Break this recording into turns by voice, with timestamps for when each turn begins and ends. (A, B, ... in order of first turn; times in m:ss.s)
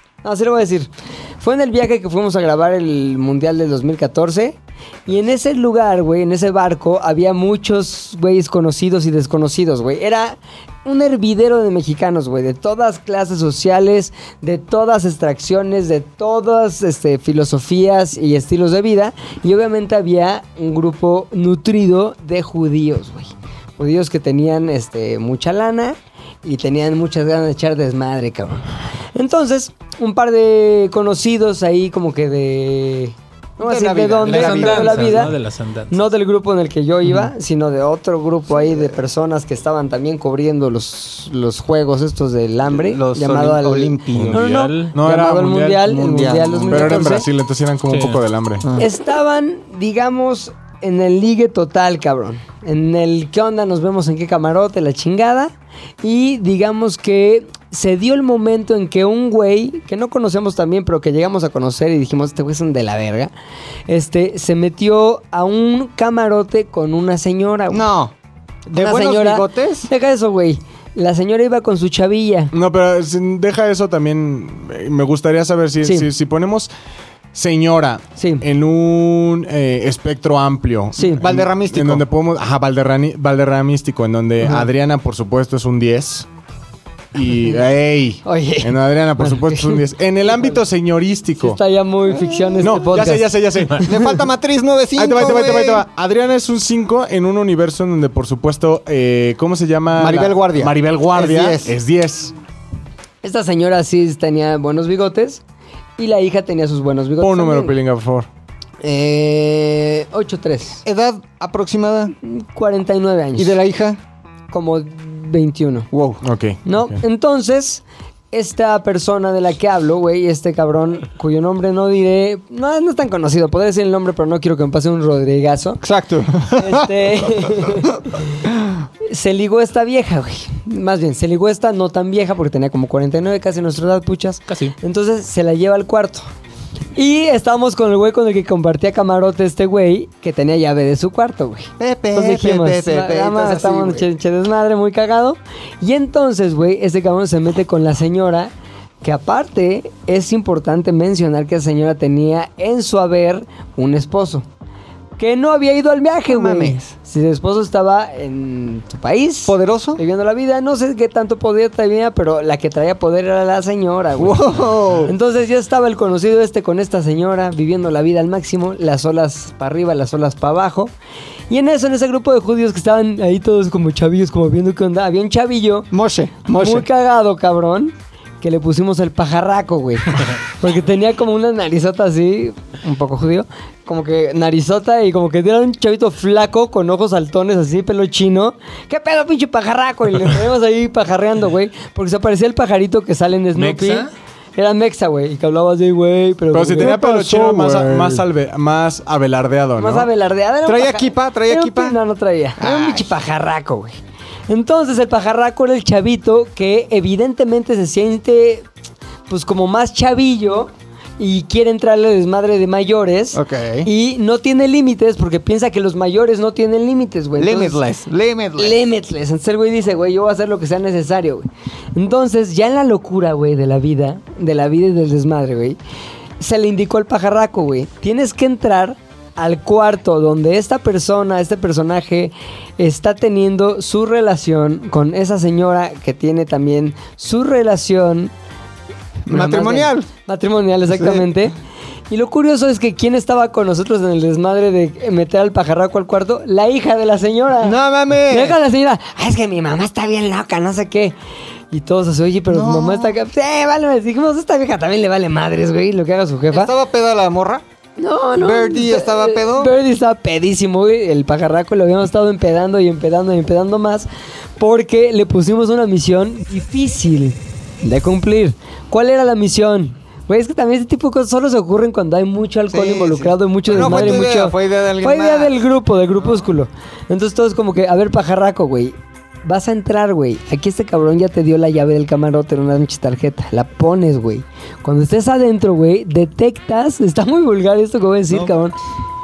0:00.2-0:35.3 A
0:33.6-0:35.3 B
0:34.2-0:36.0 C
0:35.9-0:47.3 A
0:38.5-0:39.0 B
0:42.7-0:44.4 B
0:44.1-0:44.9 C
0:44.9-0:45.9 D
0:45.8-0:47.2 B
0:46.7-0:48.6 D
0:47.9-0:48.2 C
0:48.8-1:03.3 A
1:03.9-1:07.8 A
1:07.7-1:08.1 B
1:08.7-1:09.9 B
1:08.7-1:12.5 A
1:12.5-1:16.7 D
1:15.8-1:16.1 A
1:17.3-1:26.3 D
1:18.2-1:18.4 A
1:21.0-1:21.2 A
1:21.2-1:22.0 B
1:24.4-1:24.7 A
1:27.1-1:31.6 D
1:28.2-1:30.6 A
1:31.4-1:33.3 A
1:32.6-1:34.2 D
1:33.8-1:35.8 B
1:35.0-1:42.3 D
1:40.0-1:41.7 B
1:43.2-1:45.4 A
1:46.0-1:47.8 A
1:47.2-1:48.3 D
1:48.8-1:50.8 A
1:50.8-1:52.1 B
1:52.2-1:53.5 A
1:53.4-1:54.0 B
1:54.5-1:55.9 A
1:55.9-1:56.2 B
1:56.2-1:57.0 D
1:56.6-2:05.8 A
2:05.8-2:07.8 B
2:06.6-2:08.4 A
2:08.4-2:08.8 B
2:09.0-2:16.3 A
2:14.5-2:14.7 C
2:17.0-2:28.5 A
2:21.8-2:24.0 B
2:29.0-2:34.4 A
2:35.2-2:50.9 A
2:36.3-2:36.9 B
2:39.4-2:40.0 B
2:44.2-2:45.1 B
2:51.5-2:55.9 A
2:55.9-2:56.8 B
2:56.5-3:18.1 A
3:13.5-3:14.1 C
3:16.5-3:20.1 D
3:19.8-3:24.0 A
3:20.6-3:22.0 B
3:22.6-3:23.1 B
3:24.5-3:28.6 A
3:29.3-3:37.8 A
3:33.3-3:33.9 B
3:37.4-3:38.8 B
3:38.6-3:45.8 A
3:46.4-3:58.3 A
3:59.3-4:00.1 B
3:59.3-4:01.5 A
4:00.9-4:01.3 B
4:02.1-4:07.8 A
4:07.6-4:08.6 B
4:08.3-4:11.1 A
4:11.7-4:16.7 A
4:12.5-4:13.1 B
4:16.5-4:17.6 B
4:18.0-4:48.7 A
4:18.4-4:19.7 B
4:32.7-4:35.6 B